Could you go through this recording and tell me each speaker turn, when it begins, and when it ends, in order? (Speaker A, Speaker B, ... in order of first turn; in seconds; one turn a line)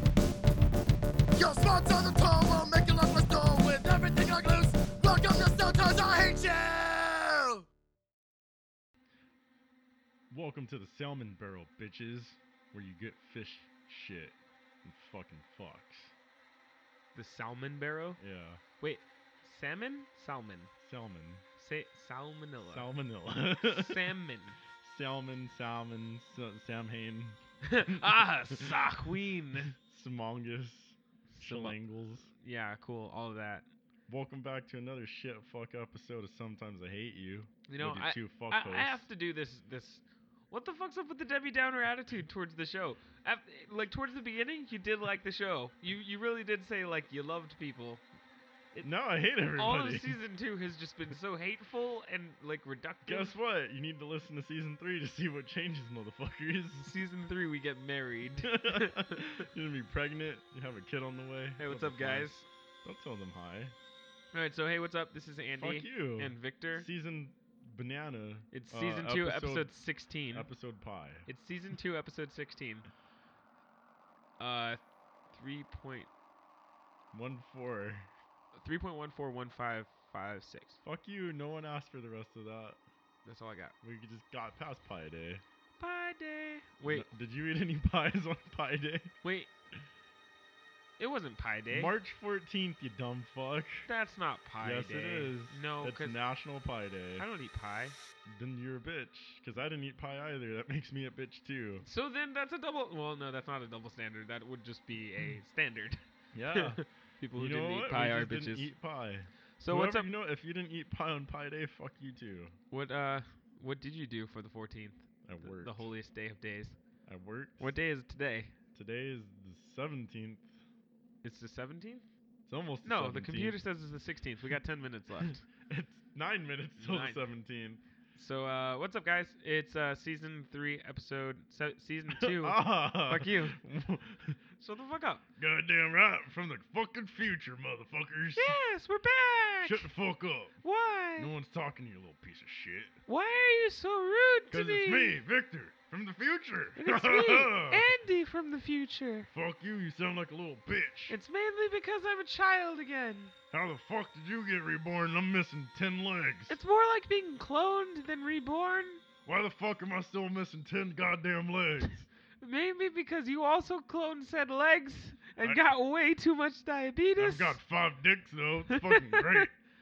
Speaker A: 1.4-7.6
Speaker B: 10.3-16.1
Speaker C: 17.1-18.2
Speaker B: 18.2-18.6
Speaker C: 18.8-20.7
Speaker B: 20.8-21.4
Speaker C: 21.6-22.9
Speaker B: 22.6-24.1
Speaker C: 23.6-24.6
Speaker B: 24.8-29.1
Speaker C: 27.6-29.7
Speaker B: 29.7-32.3
Speaker C: 31.3-31.8
Speaker C: 32.4-33.6
Speaker B: 34.1-39.0
Speaker C: 37.7-48.0
Speaker B: 48.8-50.2
Speaker C: 49.5-53.3
Speaker B: 53.0-57.0
Speaker C: 56.8-59.3
Speaker B: 58.5-62.3
Speaker C: 61.6-62.5
Speaker B: 62.8-63.7
Speaker C: 64.3-66.8
Speaker B: 65.6-69.7
Speaker C: 68.5-70.5
Speaker B: 70.3-71.3
Speaker C: 71.3-72.9
Speaker C: 74.4-76.1
Speaker B: 77.1-78.1
Speaker C: 78.5-80.8
Speaker B: 80.8-82.8
Speaker C: 83.2-83.7
Speaker B: 83.8-85.4
Speaker C: 85.8-87.1
Speaker B: 86.8-89.1
Speaker C: 89.2-89.5
Speaker C: 91.0-91.9
Speaker B: 91.7-93.9
Speaker C: 93.9-96.2
Speaker B: 94.6-97.2
Speaker C: 97.2-98.0
Speaker B: 98.2-101.8
Speaker C: 101.8-108.7
Speaker B: 106.3-106.8
Speaker B: 107.3-112.5
Speaker C: 109.6-110.1
Speaker C: 112.7-116.8
Speaker B: 115.2-115.9
Speaker B: 117.0-117.7
Speaker C: 117.6-118.5
Speaker B: 118.7-120.5
Speaker C: 121.2-122.0
Speaker B: 122.5-123.6
Speaker C: 122.8-125.4
Speaker B: 125.2-127.8
Speaker C: 126.8-127.2
Speaker C: 128.2-133.6
Speaker B: 132.1-134.4
Speaker C: 134.6-135.2
Speaker B: 135.4-138.5
Speaker C: 138.3-139.9
Speaker B: 139.6-140.6
Speaker C: 140.6-141.3
Speaker B: 141.2-142.9
Speaker C: 143.1-145.2
Speaker B: 144.5-147.8
Speaker C: 146.8-149.3
Speaker B: 149.3-151.1
Speaker C: 151.1-153.3
Speaker B: 153.5-156.6
Speaker C: 156.5-159.0
Speaker B: 159.2-162.1
Speaker C: 162.4-167.6
Speaker B: 167.2-169.5
Speaker C: 168.7-169.4